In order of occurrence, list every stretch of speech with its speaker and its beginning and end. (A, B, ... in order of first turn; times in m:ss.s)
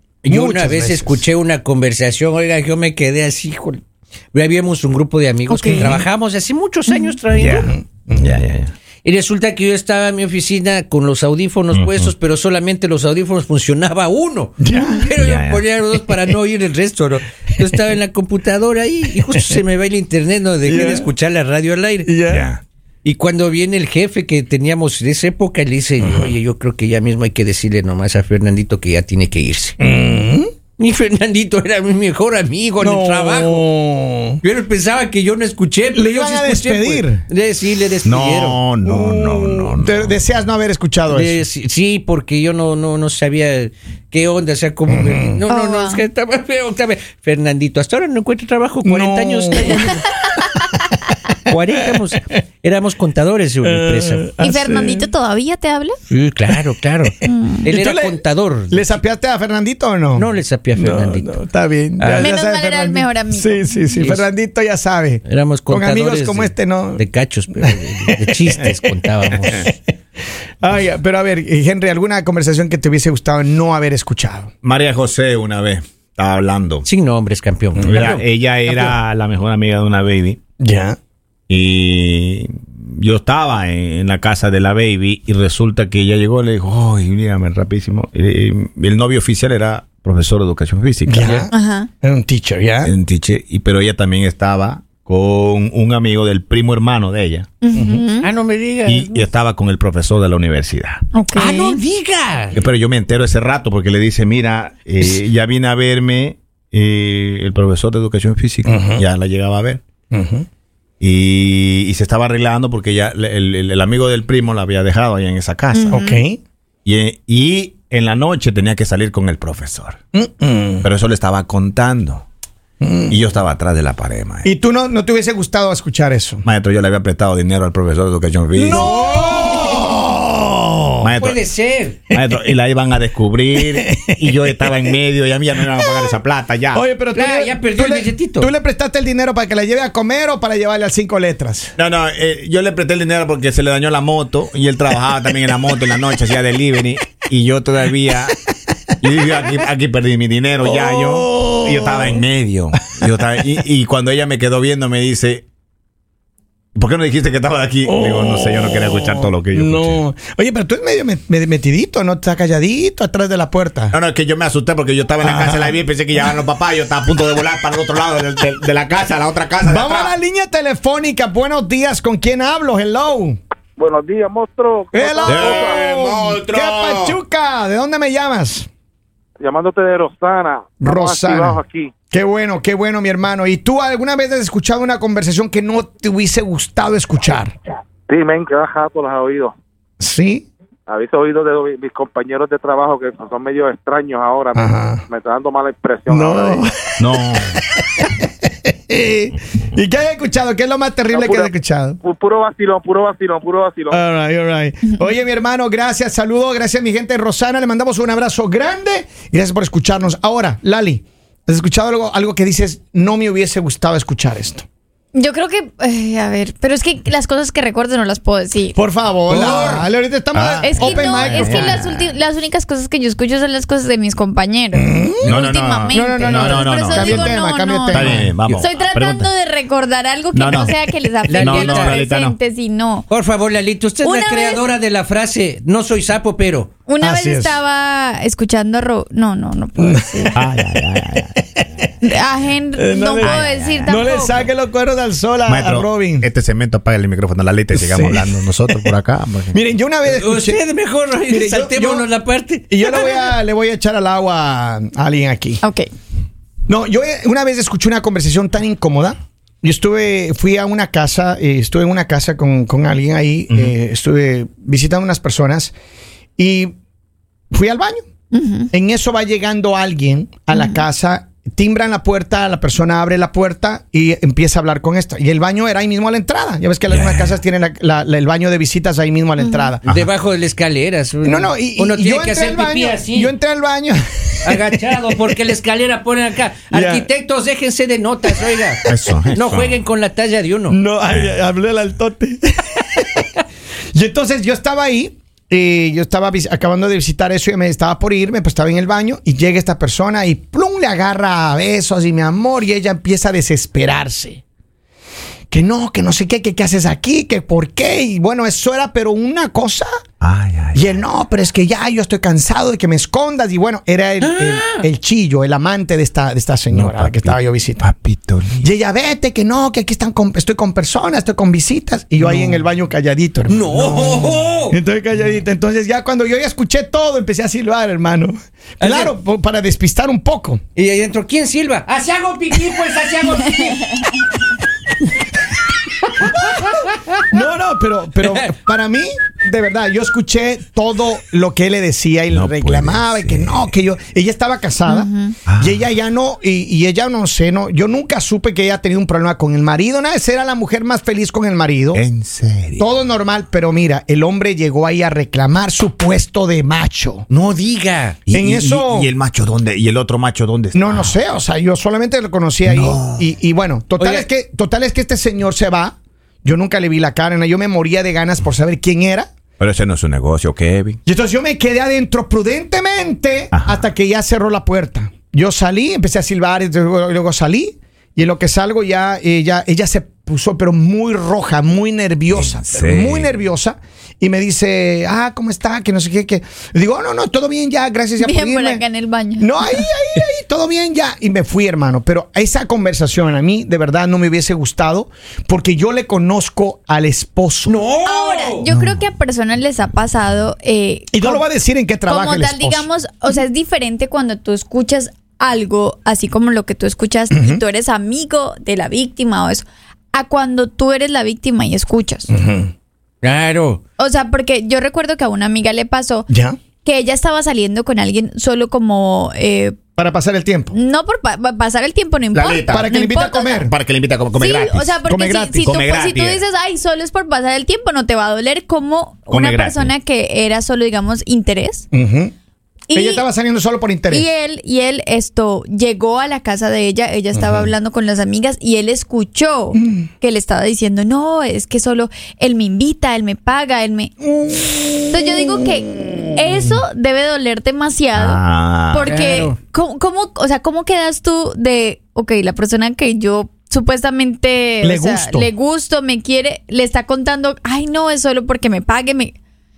0:00.2-0:07.7 A
0:00.2-0:01.2 B
0:05.5-0:05.9 C
0:05.6-0:06.0 B
0:06.9-0:07.1 C
0:07.3-0:08.7 D
0:07.5-0:08.4 B
0:09.0-0:22.1 A
0:11.7-0:12.1 D
0:14.6-0:15.1 B
0:15.2-0:15.6 D
0:20.6-0:21.1 B
0:22.0-0:22.5 B
0:22.3-0:22.6 D
0:23.0-0:29.8 A
0:26.0-0:26.3 B
0:29.8-0:30.5 B
0:30.8-0:33.7 A
0:32.8-0:34.4 B
0:34.4-0:38.6 A
0:35.9-0:37.2 B
0:38.0-0:40.2 D
0:38.8-0:41.4 B
0:41.1-0:50.0 A
0:44.9-0:45.4 B
0:45.5-0:46.0 C
0:48.8-0:50.2 B
0:51.4-0:54.3 A
0:53.6-0:55.1 B
0:54.4-0:56.0 C
0:56.1-0:58.9 A
0:57.2-0:57.7 C
0:57.7-1:08.9 B
1:00.2-1:01.4 A
1:02.0-1:02.3 A
1:02.2-1:03.7 C
1:03.9-1:04.3 A
1:05.3-1:09.7 A
1:10.6-1:14.5 B
1:14.6-1:16.8 D
1:16.8-1:18.2 A
1:17.8-1:20.4 D
1:18.7-1:19.0 B
1:20.6-1:21.0 B
1:21.5-1:31.4 D
1:31.0-1:32.9 B
1:31.2-1:31.4 A
1:31.5-1:31.9 C
1:32.8-1:37.5 D
1:37.6-1:38.3 C
1:37.7-1:38.0 B
1:38.2-1:39.3 A
1:38.8-1:41.0 D
1:41.1-1:41.8 C
1:41.3-1:42.6 A
1:42.5-1:49.8 D
1:48.6-1:49.0 B
1:50.1-1:50.4 B
1:51.0-1:56.0 D
1:55.7-1:56.2 C
1:55.9-1:56.4 B
1:56.8-2:00.0 D
2:00.1-2:00.9 B
2:00.8-2:02.2 D
2:02.8-2:03.2 B
2:03.1-2:04.5 D
2:04.4-2:06.4 B
2:06.4-2:08.9 D
2:08.5-2:09.9 A
2:08.6-2:11.1 B
2:11.0-2:11.4 D
2:11.2-2:12.0 A
2:12.1-2:16.8 D
2:13.6-2:14.9 B
2:15.7-2:16.2 B
2:16.7-2:21.7 B
2:17.1-2:18.5 A
2:21.8-2:28.3 D
2:29.0-2:35.4 D
2:30.6-2:32.2 B
2:36.8-2:40.0 D
2:37.8-2:43.9 B
2:43.9-2:50.1 D
2:45.2-2:45.7 B
2:49.6-2:53.4 B
2:53.8-2:55.8 E
2:54.9-2:58.7 B
2:55.2-2:57.2 D
2:59.4-3:01.9 E
3:00.8-3:07.5 B
3:08.1-3:09.5 E
3:10.0-3:10.5 B
3:10.9-3:16.6 E
3:14.5-3:15.0 B
3:16.1-3:22.0 B
3:17.0-3:17.6 D
3:21.1-3:21.5 E
3:22.0-3:24.0 E
3:23.9-3:34.6 B
3:35.1-3:38.8 C
3:38.7-3:41.8 B
3:39.3-3:39.8 A
3:39.3-3:39.8 D
3:40.3-3:42.1 D
3:40.6-3:53.1 C
3:44.7-3:45.4 B
3:45.2-3:47.4 D
3:45.9-3:48.3 B
3:47.9-3:49.3 D
3:50.3-3:50.8 D
3:51.3-3:52.0 A
3:51.3-3:52.4 D
3:53.1-3:56.7 A
3:54.0-3:54.7 C
3:56.9-4:00.4 C
3:57.0-3:57.6 B
3:59.8-4:00.4 B
4:00.3-4:01.9 D
4:02.0-4:04.4 C
4:02.8-4:06.3 B
4:03.2-4:04.2 D
4:05.4-4:09.6 D
4:07.7-4:08.9 B
4:09.5-4:10.6 B
4:10.0-4:12.9 A
4:11.3-4:12.1 B
4:12.7-4:15.6 B
4:15.6-4:15.9 C
4:16.7-4:25.7 B
4:26.4-4:26.7 B
4:27.5-4:28.0 B
4:28.3-4:28.7 C
4:28.7-4:39.8 B
4:30.5-4:30.8 C
4:36.9-4:37.4 D
4:39.4-4:39.7 C
4:39.8-4:43.3 A
4:41.2-4:45.4 B
4:44.4-4:50.8 A
4:46.7-4:47.1 B
4:48.3-4:49.0 B
4:48.9-4:49.8 D
4:50.7-4:53.2 B
4:51.1-4:51.3 D
4:53.9-5:04.4 B
5:05.5-5:09.9 B
5:10.2-5:11.0 D
5:10.7-5:17.8 B
5:14.2-5:14.8 A
5:16.7-5:18.6 D
5:18.6-5:30.6 B
5:22.3-5:22.6 A
5:23.5-5:24.7 A
5:28.8-5:29.1 A
5:30.8-5:34.0 A
5:36.0-5:37.2 A
5:37.3-5:52.0 B
5:38.2-5:38.5 A
5:42.3-5:43.7 D
5:44.8-5:45.4 C
5:45.4-5:45.8 D
5:51.9-5:52.8 D
5:52.8-5:57.3 B
5:57.3-5:58.2 A
5:58.3-6:01.1 D
5:58.3-5:59.1 B
6:00.7-6:09.3 B
6:02.6-6:03.2 D
6:04.0-6:04.3 A
6:09.6-6:11.0 D
6:11.0-6:28.8 B
6:13.5-6:13.8 D
6:22.3-6:23.3 D
6:28.2-6:29.9 C
6:29.4-6:37.8 B
6:37.6-6:38.6 A
6:38.0-6:41.4 C
6:38.6-6:39.0 B
6:41.1-6:42.9 B
6:42.0-6:52.3 C
6:47.3-6:47.6 B
6:52.3-6:52.7 B
6:53.2-6:53.8 A
6:54.0-6:56.3 C
6:56.3-6:56.6 B
6:56.8-6:59.8 C
7:00.0-7:00.8 B
7:00.7-7:03.6 C
7:02.3-7:02.9 D
7:02.7-7:03.7 B
7:03.6-7:04.9 D
7:04.3-7:11.8 C
7:05.1-7:05.7 B
7:05.6-7:06.4 D
7:09.3-7:09.9 D
7:11.9-7:12.3 B
7:12.9-7:13.2 C
7:12.9-7:14.3 B
7:14.1-7:24.3 C
7:17.3-7:17.7 D
7:19.8-7:20.0 B
7:24.3-7:26.7 B
7:25.1-7:39.3 C
7:28.2-7:29.1 D
7:29.0-7:29.6 A
7:34.8-7:35.5 B